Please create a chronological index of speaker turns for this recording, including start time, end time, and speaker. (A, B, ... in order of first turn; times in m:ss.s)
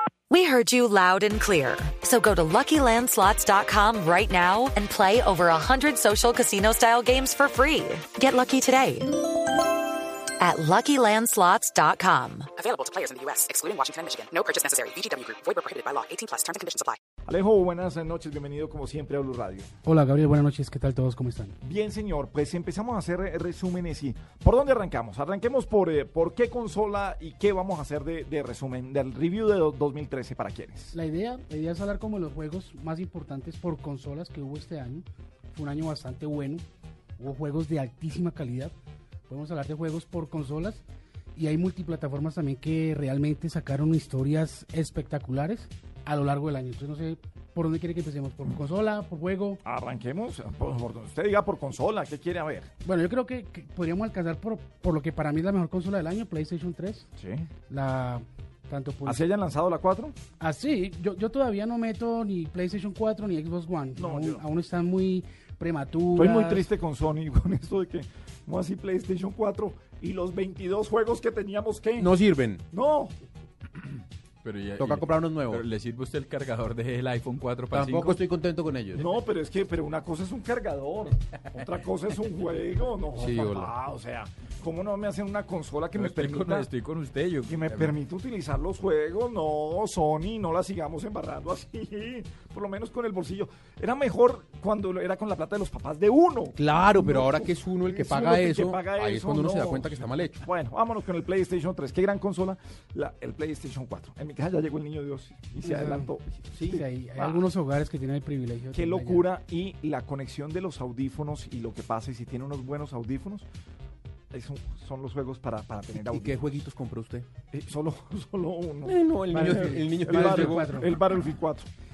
0:00.3-0:09.3 A
0:10.4-0:12.5 A
0:12.6-0:17.0 B
0:17.2-0:19.7 C
0:19.8-0:21.6 D
0:21.6-0:30.9 C
0:30.9-0:36.6 D
0:37.2-0:38.7 D
0:39.3-0:40.8 D
0:41.3-0:49.6 D
0:49.6-0:52.7 C
0:52.8-0:57.1 D
0:57.2-0:57.5 C
0:57.7-0:59.3 D
0:59.0-1:00.2 C
1:00.4-1:06.7 D
1:04.0-1:04.4 C
1:06.1-1:12.1 C
1:12.0-1:12.6 E
1:12.7-1:13.1 C
1:14.4-1:18.2 F
1:14.8-1:15.6 E
1:17.7-1:19.0 E
1:19.0-1:26.7 C
1:23.2-1:23.7 E
1:25.9-1:27.9 F
1:27.5-1:47.5 C
1:36.6-1:40.4 E
1:45.6-1:46.1 D
1:46.7-1:49.3 D
1:48.7-1:53.5 C
1:54.3-1:56.6 C
1:56.0-1:57.3 E
1:57.5-2:01.7 C
1:58.8-2:00.8 E
1:59.3-2:01.0 D